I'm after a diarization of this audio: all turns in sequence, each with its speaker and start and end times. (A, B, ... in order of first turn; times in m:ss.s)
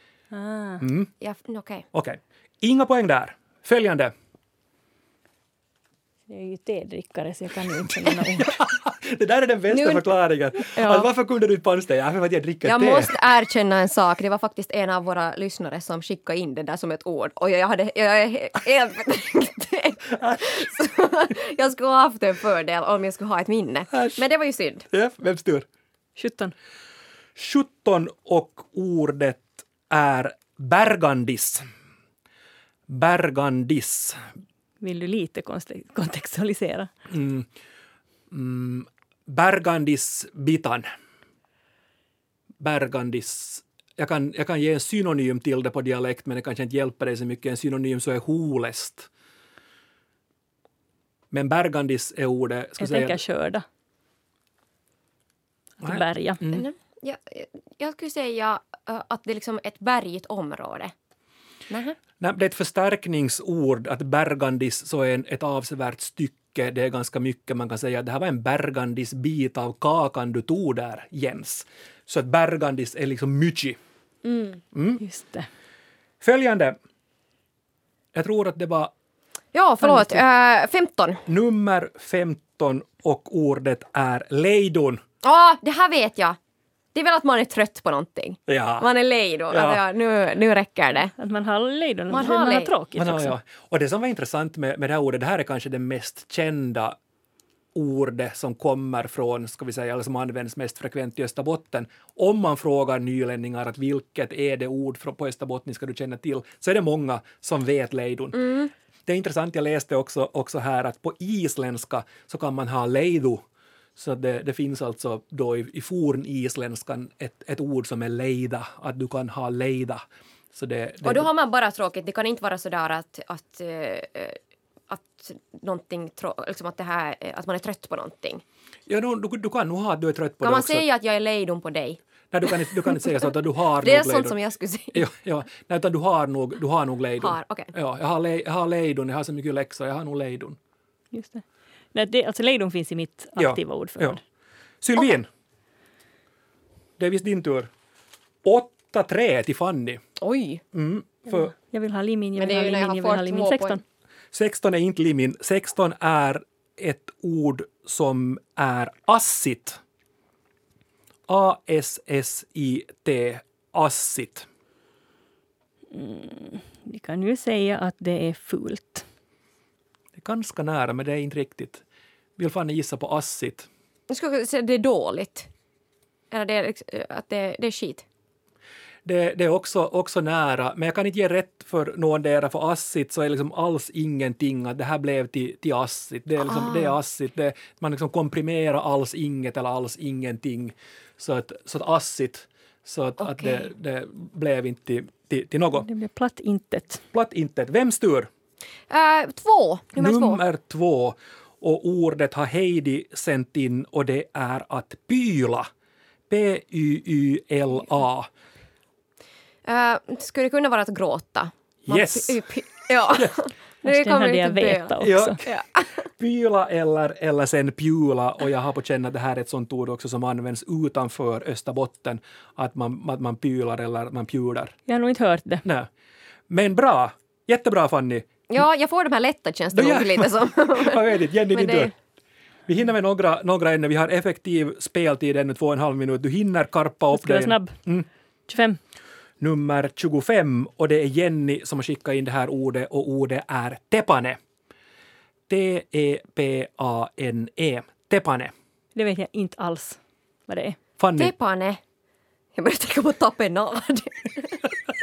0:00.3-0:00.8 A
0:00.8-0:01.1 B
0:01.2-0:01.9 C
0:01.9-0:04.1 B
0:06.3-0:08.6 A
0:08.4-0:13.1 B
0:09.7-0:10.1 C
0:10.8-0:11.1 C
0:12.6-0:24.9 C
0:20.1-0:20.6 B
0:23.9-0:24.2 B
0:24.9-0:25.7 B
0:26.2-0:26.5 A
0:27.4-0:31.6 B
0:32.9-0:34.2 B
0:34.8-0:36.9 A
0:37.1-0:37.5 B
0:38.3-0:40.9 B
0:42.6-0:49.1 B
0:51.3-0:53.2 B
0:52.8-0:53.6 A
0:55.8-0:56.4 A
0:55.8-0:56.7 B
0:56.5-1:00.9 C
1:01.7-1:02.0 C
1:02.2-1:13.8 B
1:14.2-1:14.6 C
1:14.7-1:15.0 B
1:15.0-1:15.5 A
1:16.2-1:16.8 B
1:18.1-1:18.9 B
1:19.5-1:21.2 C
1:19.8-1:20.2 A
1:21.3-1:25.0 B
1:25.2-1:26.4 C
1:26.9-1:31.1 C
1:28.5-1:28.9 B
1:29.5-1:29.8 B
1:31.1-1:33.4 A
1:32.1-1:32.7 C
1:33.0-1:37.0 B
1:37.8-1:48.6 B
1:48.4-1:48.7 C
1:49.1-1:53.4 B
1:54.0-2:01.3 B
2:01.0-2:08.4 C
2:08.9-2:10.9 B
2:10.4-2:13.2 C
2:12.3-2:14.4 B
2:13.8-2:15.0 C
2:14.9-2:20.6 B
2:17.2-2:17.7 C
2:21.1-2:24.2 A
2:23.4-2:24.2 B
2:24.8-2:25.3 B
2:27.0-2:27.7 B
2:28.4-2:30.0 B
2:30.2-2:30.6 C
2:30.7-2:31.5 B
2:31.3-2:33.8 A
2:32.4-2:33.8 C
2:34.3-2:39.8 B
2:41.3-2:44.5 B
2:45.9-2:49.0 A
2:50.2-2:51.8 B
2:52.4-2:53.7 B
2:54.1-2:55.5 C
2:56.3-2:58.0 C
2:59.0-3:15.9 B
3:06.4-3:07.0 C
3:13.2-3:13.7 C
3:15.8-3:17.0 A
3:17.1-3:18.3 B
3:18.9-3:20.4 C
3:20.0-3:25.7 B
3:26.3-3:28.3 B
3:29.6-3:36.1 C
3:31.9-3:32.5 B
3:33.8-3:35.4 A
3:35.0-3:35.5 B
3:36.2-3:44.8 B
3:44.9-3:45.6 A
3:46.5-3:48.4 B
3:48.5-3:51.9 C
3:49.7-3:51.9 B
3:52.7-3:58.1 B
3:57.1-3:57.8 A
3:58.5-3:58.8 A
3:59.4-4:04.4 B
4:05.5-4:08.5 B
4:09.0-4:10.8 A
4:11.0-4:11.3 B
4:11.2-4:11.8 C
4:12.5-4:14.7 C